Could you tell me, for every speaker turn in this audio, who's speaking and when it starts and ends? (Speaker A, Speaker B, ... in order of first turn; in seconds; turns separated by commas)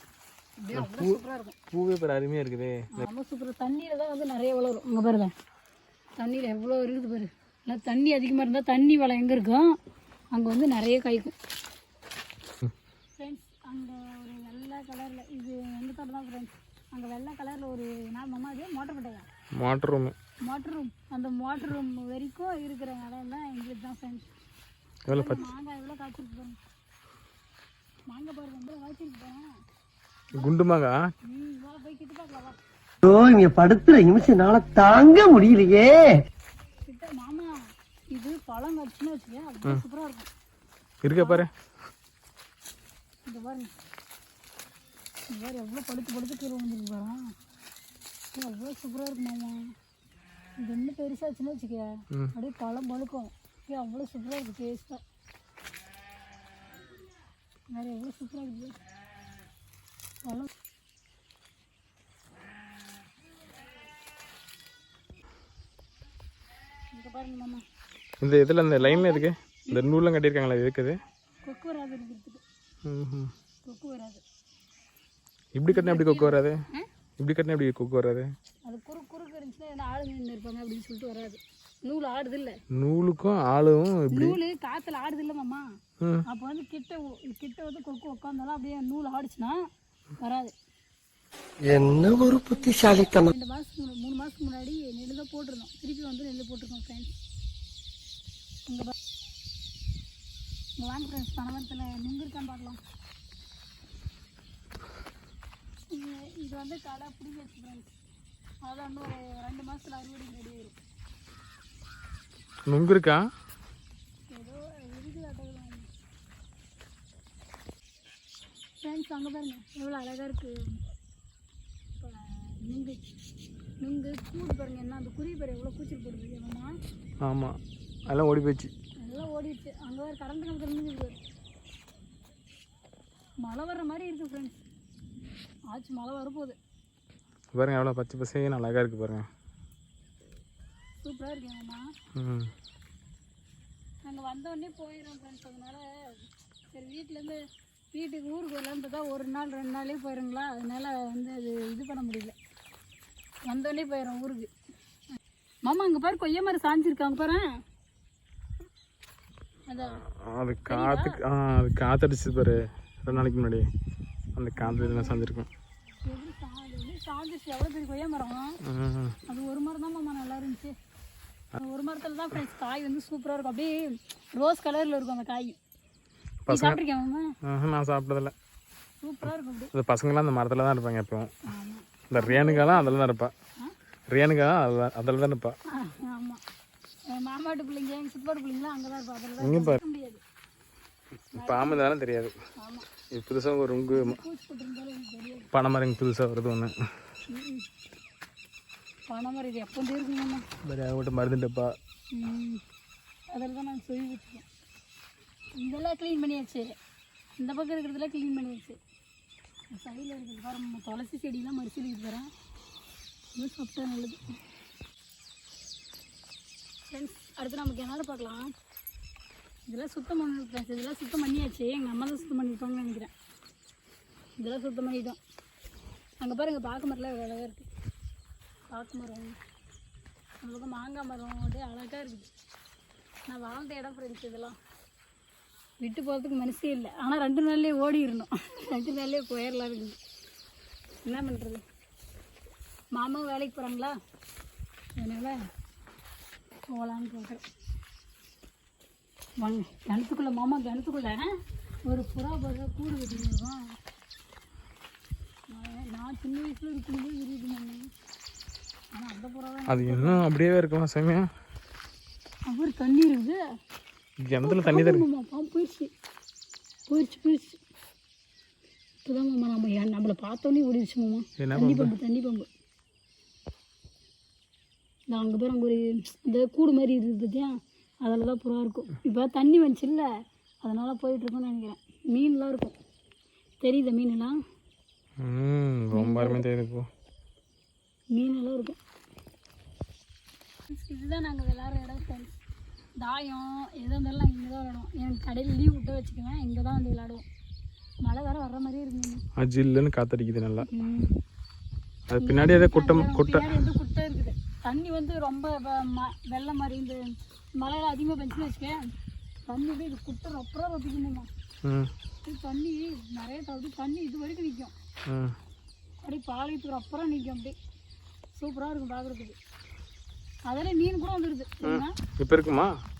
Speaker A: 0.6-1.6, Speaker B: 0.7-3.1, Speaker A: 2.9-5.3, Speaker A: 6.2-9.8, Speaker A: 10.3-11.3, Speaker A: 13.2-19.3, Speaker B: 19.6-20.1, Speaker A: 20.4-24.3, Speaker B: 25.1-25.5, Speaker A: 25.1-26.6, Speaker A: 28.1-29.5, Speaker B: 30.3-30.9, Speaker A: 31.2-32.5, Speaker C: 33.0-36.1, Speaker A: 36.9-37.5, Speaker A: 38.1-40.3, Speaker B: 41.0-41.5, Speaker A: 41.1-41.4, Speaker A: 43.2-43.7, Speaker A: 45.3-47.3, Speaker A: 48.3-49.7, Speaker A: 50.6-55.0, Speaker A: 57.7-58.8, Speaker A: 60.2-60.5, Speaker A: 66.9-67.6, Speaker B: 68.2-71.0, Speaker A: 68.8-69.8, Speaker A: 71.4-72.4, Speaker B: 72.8-73.3, Speaker A: 73.6-74.2, Speaker B: 75.5-76.6, Speaker A: 75.7-76.9, Speaker B: 77.2-78.3, Speaker A: 78.6-82.6, Speaker B: 82.7-84.4, Speaker A: 84.1-85.7, Speaker A: 86.2-89.6, Speaker A: 90.2-90.5, Speaker C: 91.6-93.3, Speaker A: 92.4-97.1, Speaker A: 98.7-98.9, Speaker A: 100.8-102.8, Speaker A: 105.9-107.9, Speaker A: 108.6-110.7, Speaker B: 112.7-113.2, Speaker A: 114.3-115.9, Speaker A: 118.8-120.8, Speaker A: 122.0-123.0, Speaker A: 123.8-126.7, Speaker B: 127.2-128.7, Speaker A: 129.0-131.2, Speaker A: 133.4-134.6, Speaker A: 135.7-136.6, Speaker B: 137.5-139.3, Speaker A: 141.0-141.8, Speaker B: 142.2-142.5, Speaker A: 144.0-147.4, Speaker A: 147.9-152.3, Speaker A: 153.5-154.5, Speaker A: 155.7-157.5, Speaker A: 159.7-160.0, Speaker B: 160.1-163.7, Speaker A: 160.7-161.2, Speaker B: 164.3-165.5, Speaker A: 164.6-165.3, Speaker A: 166.0-168.6, Speaker B: 168.6-169.2, Speaker A: 169.3-170.7, Speaker A: 171.6-175.6, Speaker B: 176.5-176.8, Speaker A: 176.5-177.3, Speaker B: 177.4-178.3, Speaker A: 179.0-179.7, Speaker B: 179.7-181.3, Speaker A: 181.4-183.0, Speaker B: 182.1-183.3, Speaker B: 184.1-185.6, Speaker A: 185.7-186.4, Speaker A: 187.1-190.2, Speaker B: 189.4-189.8, Speaker A: 191.3-191.9, Speaker B: 191.3-192.3, Speaker A: 192.6-192.9, Speaker B: 193.1-194.2, Speaker A: 193.9-195.5, Speaker B: 195.5-196.7, Speaker A: 197.3-197.7, Speaker A: 199.1-200.4, Speaker B: 200.6-201.8, Speaker A: 202.1-202.6, Speaker A: 203.3-204.4, Speaker A: 205.6-206.7, Speaker A: 207.4-208.8, Speaker A: 209.7-212.3, Speaker A: 213.3-214.3, Speaker A: 216.9-218.5, Speaker A: 219.7-223.1, Speaker A: 224.4-225.2, Speaker A: 226.2-227.7, Speaker A: 228.7-229.4, Speaker A: 230.4-232.3, Speaker A: 233.3-234.6, Speaker A: 235.8-240.0, Speaker A: 241.0-241.6, Speaker A: 242.9-244.0, Speaker A: 245.0-245.4, Speaker A: 246.7-247.4, Speaker A: 249.4-251.3, Speaker A: 251.8-253.6, Speaker A: 255.5-257.9, Speaker A: 258.9-260.2, Speaker B: 259.7-261.3, Speaker A: 262.5-263.4, Speaker B: 264.2-265.1, Speaker A: 264.4-265.9, Speaker A: 266.9-267.6, Speaker A: 269.0-272.5, Speaker B: 271.4-271.9, Speaker A: 275.1-280.1, Speaker A: 280.6-282.8, Speaker A: 283.6-284.4, Speaker B: 285.2-286.9, Speaker A: 285.9-286.4, Speaker A: 288.1-288.8, Speaker A: 290.7-292.4, Speaker A: 293.0-297.2, Speaker A: 298.0-299.2, Speaker B: 299.4-300.7, Speaker A: 300.7-301.1, Speaker B: 302.1-303.6, Speaker A: 302.2-307.0, Speaker A: 307.6-308.8, Speaker A: 309.5-311.3, Speaker B: 311.6-311.9, Speaker A: 312.2-314.7, Speaker B: 315.1-315.4, Speaker A: 316.0-317.6, Speaker A: 318.4-319.4, Speaker A: 320.5-321.9, Speaker B: 321.6-322.7